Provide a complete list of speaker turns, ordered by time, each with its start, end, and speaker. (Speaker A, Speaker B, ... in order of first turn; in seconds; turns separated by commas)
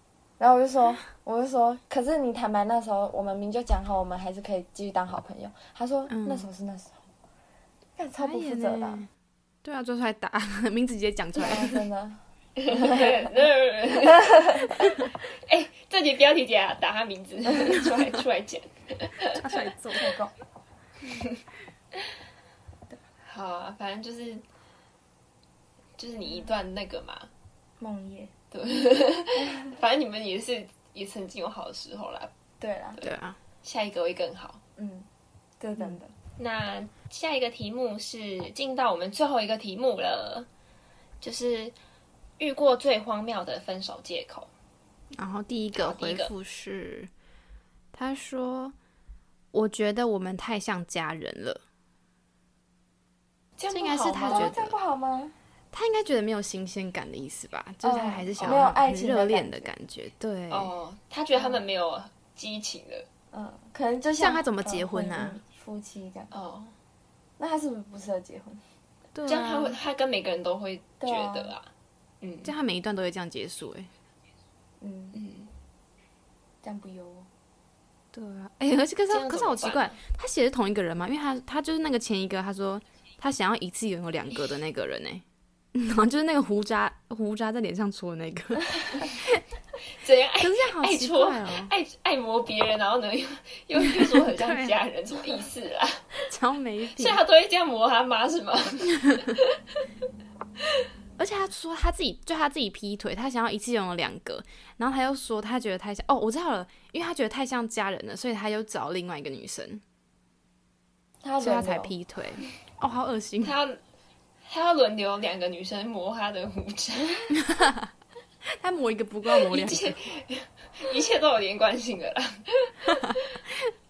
Speaker A: 0.4-7.0, Speaker B: 6.1-6.5, Speaker A: 8.0-9.1, Speaker B: 8.2-9.1, Speaker B: 9.6-11.8, Speaker A: 11.3-13.2, Speaker C: 12.6-19.6, Speaker B: 19.3-20.1, Speaker A: 19.9-20.3, Speaker C: 23.2-24.4, Speaker C: 26.0-27.3, Speaker A: 27.8-28.3, Speaker C: 28.5-32.3, Speaker A: 29.5-29.7, Speaker A: 32.6-33.0, Speaker C: 33.0-34.6, Speaker B: 33.0-33.4, Speaker A: 34.8-35.1, Speaker A: 35.6-36.1, Speaker C: 36.4-40.5, Speaker C: 41.2-41.8, Speaker C: 42.4-44.5, Speaker B: 45.1-47.1, Speaker C: 45.7-46.3, Speaker B: 47.9-48.8, Speaker B: 49.5-51.6, Speaker C: 53.6-54.5, Speaker B: 53.7-54.7, Speaker A: 54.2-55.4, Speaker B: 55.7-60.7, Speaker A: 57.8-59.7, Speaker C: 58.4-58.7, Speaker C: 60.5-63.0, Speaker A: 63.3-66.3, Speaker B: 64.2-65.4, Speaker C: 66.3-66.7, Speaker A: 67.4-68.6, Speaker B: 69.1-69.8, Speaker C: 69.2-71.7, Speaker A: 71.0-71.5, Speaker C: 72.2-72.5, Speaker B: 72.4-73.9, Speaker A: 74.8-75.2, Speaker C: 75.1-75.5, Speaker A: 76.6-77.3, Speaker B: 78.1-89.4, Speaker C: 79.1-80.0, Speaker C: 90.0-96.2, Speaker B: 90.4-91.7, Speaker B: 93.8-94.8, Speaker B: 96.3-97.2, Speaker C: 97.0-99.6, Speaker B: 99.0-99.3, Speaker B: 101.2-109.8, Speaker A: 111.2-111.9, Speaker B: 111.4-113.5, Speaker C: 113.4-113.8, Speaker C: 114.5-117.3, Speaker B: 117.3-117.9, Speaker B: 118.6-120.0, Speaker C: 119.3-123.4